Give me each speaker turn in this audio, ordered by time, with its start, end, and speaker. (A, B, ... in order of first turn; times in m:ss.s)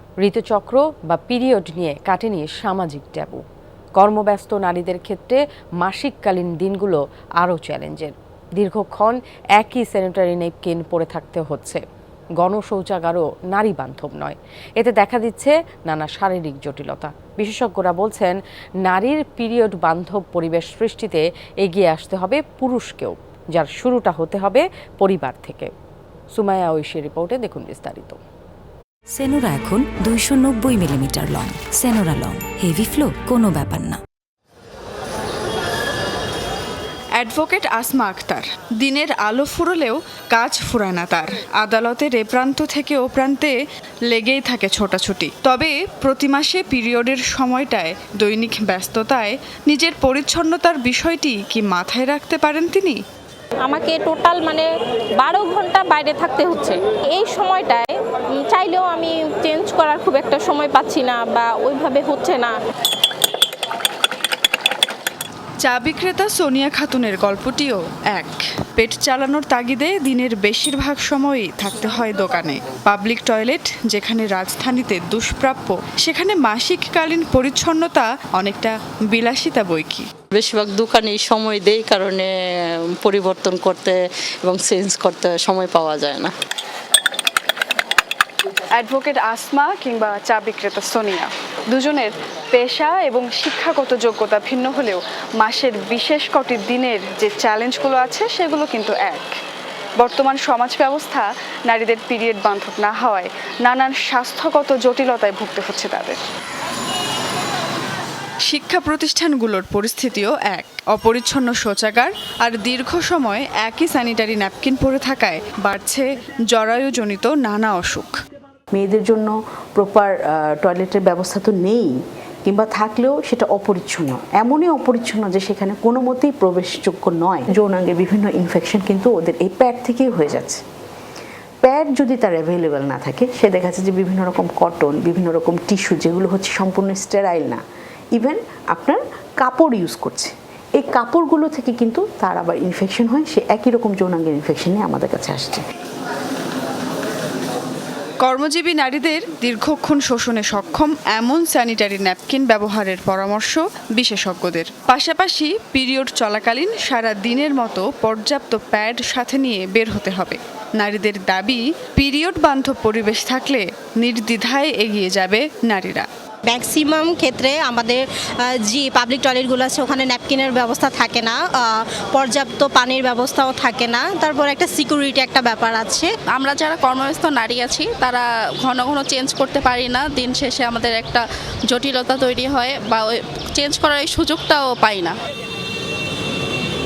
0:00.2-0:03.4 A
0:04.0-0:11.8 A
0:12.4-0:25.7 A
0:26.3-0:28.2 A
0:29.2-0:34.0 B
0:37.2-0:43.6 C
0:44.1-0:53.0 C
0:53.6-0:54.7 D
0:55.2-1:02.6 D
1:05.6-1:20.1 C
1:20.3-1:26.3 E
1:28.8-1:39.3 C
1:40.0-1:46.2 C
1:48.4-1:58.2 C
1:58.7-2:10.6 F
2:11.6-2:17.6 F
2:18.1-2:25.6 F
2:28.2-2:46.1 C
2:46.4-2:56.1 G
2:56.3-3:05.1 H